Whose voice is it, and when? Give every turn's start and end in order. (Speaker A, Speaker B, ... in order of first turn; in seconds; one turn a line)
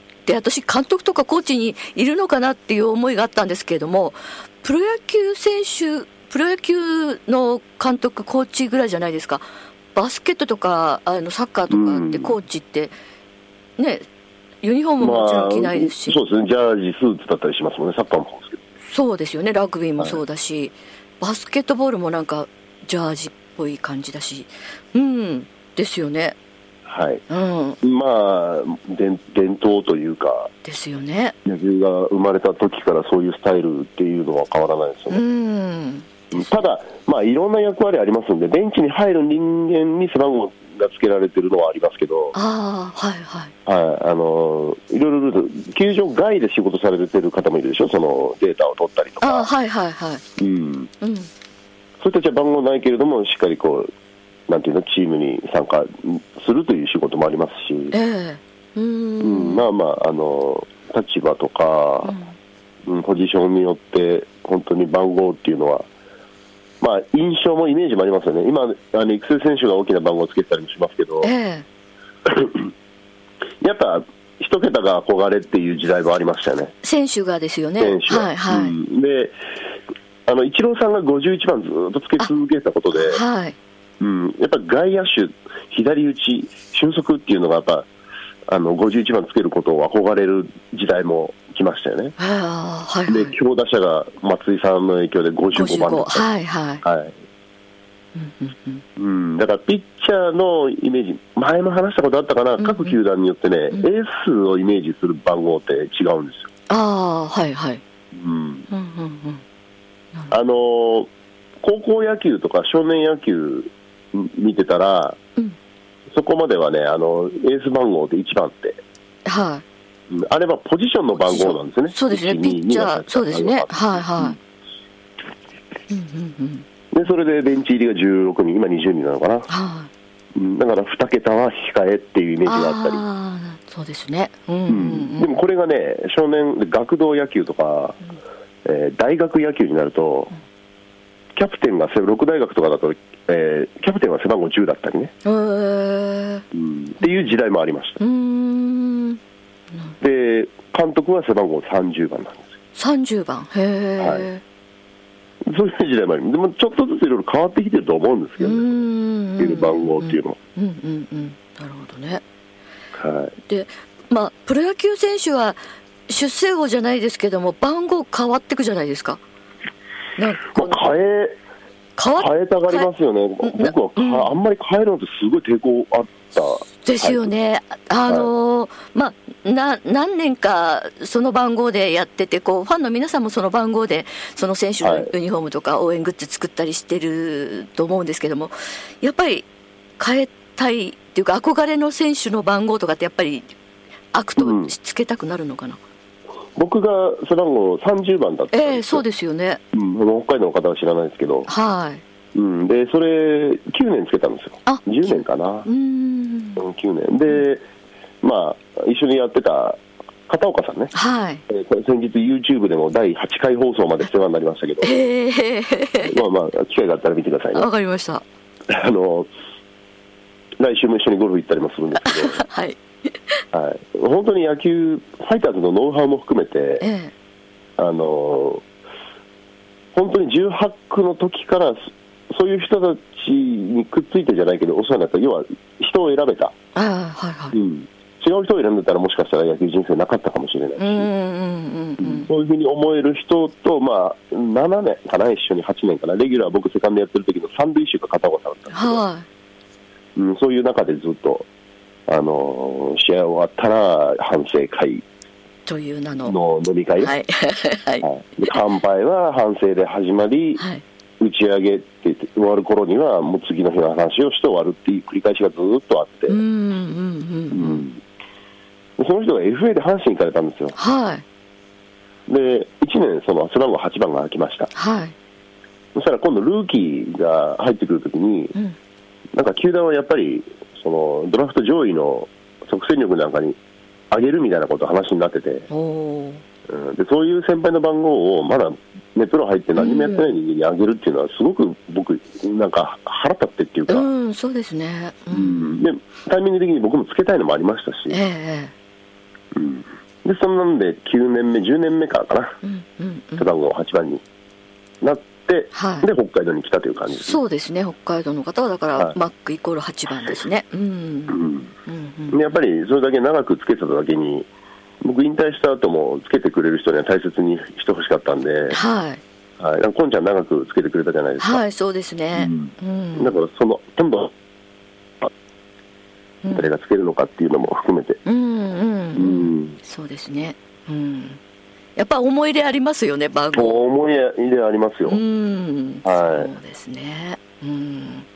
Speaker A: 0.3-12.9
Speaker B: 11.7-12.4
Speaker A: 13.8-14.1
Speaker A: 14.6-16.2
Speaker B: 15.0-18.6
Speaker A: 18.9-26.4
Speaker B: 26.9-27.2
Speaker A: 27.3-27.8
Speaker B: 27.8-30.5
Speaker A: 30.6-31.4
Speaker B: 31.4-35.2
Speaker A: 35.1-36.5
Speaker B: 36.3-42.4
Speaker A: 42.3-43.5
Speaker B: 43.7-49.5
Speaker A: 49.2-50.2
Speaker B: 50.4-50.9
Speaker A: 51.0-51.3
Speaker B: 52.0-53.9
Speaker B: 54.5-58.0
Speaker A: 57.9-59.7
Speaker B: 59.2-62.1
Speaker A: 62.0-62.4
Speaker B: 62.9-65.9
Speaker B: 66.8-71.3
Speaker A: 71.2-71.7
Speaker B: 72.3-72.6
Speaker B: 73.6-76.7
Speaker A: 76.8-78.8
Speaker B: 77.8-79.3
Speaker B: 80.3-83.2
Speaker A: 82.9-83.6
Speaker B: 84.0-87.9
Speaker B: 88.5-92.2
Speaker A: 92.2-93.3
Speaker B: 93.1-96.3
Speaker A: 95.5-96.8
Speaker B: 96.8-97.1
Speaker A: 98.2-98.8
Speaker B: 99.0-106.5
Speaker A: 102.6-103.0
Speaker A: 106.7-107.8
Speaker B: 108.1-108.7
Speaker A: 108.7-109.4
Speaker B: 110.3-111.1
Speaker B: 111.6-115.2
Speaker B: 116.1-118.8
Speaker A: 119.3-119.6
Speaker B: 120.1-124.4
Speaker A: 121.1-124.4
Speaker A: 125.9-126.7
Speaker B: 126.9-129.5
Speaker A: 129.5-129.9
Speaker B: 130.3-133.0
Speaker A: 132.5-135.3
Speaker B: 134.7-138.0
Speaker B: 138.7-140.3
Speaker B: 141.4-145.1
Speaker A: 145.2-146.4
Speaker B: 146.5-148.0
Speaker A: 148.0-149.2
Speaker B: 150.0-152.6
Speaker A: 152.8-154.4
Speaker B: 154.0-154.3
Speaker B: 155.5-158.8
Speaker A: 158.4-162.2
Speaker B: 159.4-160.4
Speaker B: 162.9-163.3
Speaker A: 163.4-169.2
Speaker A: 170.2-170.8
Speaker B: 170.5-171.4
Speaker A: 172.0-172.9
Speaker B: 172.2-177.3
Speaker A: 173.4-174.4
Speaker A: 176.3-189.5
Speaker B: 178.1-178.3
Speaker B: 184.8-185.1
Speaker A: 190.0-193.6
Speaker A: 194.1-195.8
Speaker B: 194.4-194.7
Speaker B: 196.6-199.1
Speaker A: 198.5-199.6
Speaker B: 199.7-201.5
Speaker A: 201.5-202.0
Speaker B: 202.3-205.7
Speaker A: 204.7-206.6
Speaker B: 206.6-207.6
Speaker B: 208.2-210.9
Speaker A: 210.9-211.4
Speaker B: 211.5-215.0
Speaker A: 214.8-216.1
Speaker B: 216.0-217.7
Speaker A: 217.5-218.2
Speaker B: 218.7-219.3
Speaker B: 220.6-222.4
Speaker A: 222.0-222.8
Speaker B: 223.5-226.8
Speaker A: 226.8-227.1
Speaker B: 227.8-228.6
Speaker B: 229.9-236.5
Speaker A: 236.8-237.6
Speaker B: 237.5-241.1
Speaker A: 240.8-242.3
Speaker B: 242.0-249.0
Speaker A: 248.7-249.3
Speaker B: 250.2-251.5
Speaker B: 252.1-255.0
Speaker A: 255.7-256.4
Speaker B: 256.3-257.1
Speaker A: 257.0-258.1
Speaker B: 258.0-260.6
Speaker B: 261.2-266.4
Speaker A: 266.3-267.9
Speaker B: 267.5-268.0
Speaker B: 269.0-270.8
Speaker A: 270.8-271.2
Speaker B: 272.3-274.7
Speaker A: 274.7-275.1
Speaker B: 275.9-278.5
Speaker B: 279.4-283.6
Speaker B: 284.1-285.7
Speaker A: 285.7-286.4
Speaker B: 286.7-294.1
Speaker A: 289.8-290.4
Speaker A: 293.9-295.8
Speaker B: 295.3-298.2
Speaker A: 298.1-298.7
Speaker B: 299.6-302.6
Speaker A: 302.6-303.5
Speaker B: 303.4-304.2
Speaker B: 305.0-307.4
Speaker A: 305.7-306.1
Speaker A: 307.1-312.4
Speaker B: 311.3-311.7
Speaker B: 312.3-314.5
Speaker B: 315.0-318.8
Speaker A: 318.7-319.2
Speaker B: 319.6-321.6
Speaker A: 321.4-323.4
Speaker B: 322.4-324.3
Speaker A: 326.4-326.7
Speaker B: 326.5-328.2
Speaker A: 328.2-331.4
Speaker B: 329.2-329.8
Speaker A: 332.0-333.8
Speaker B: 333.5-335.2
Speaker A: 335.1-338.3
Speaker B: 336.0-336.5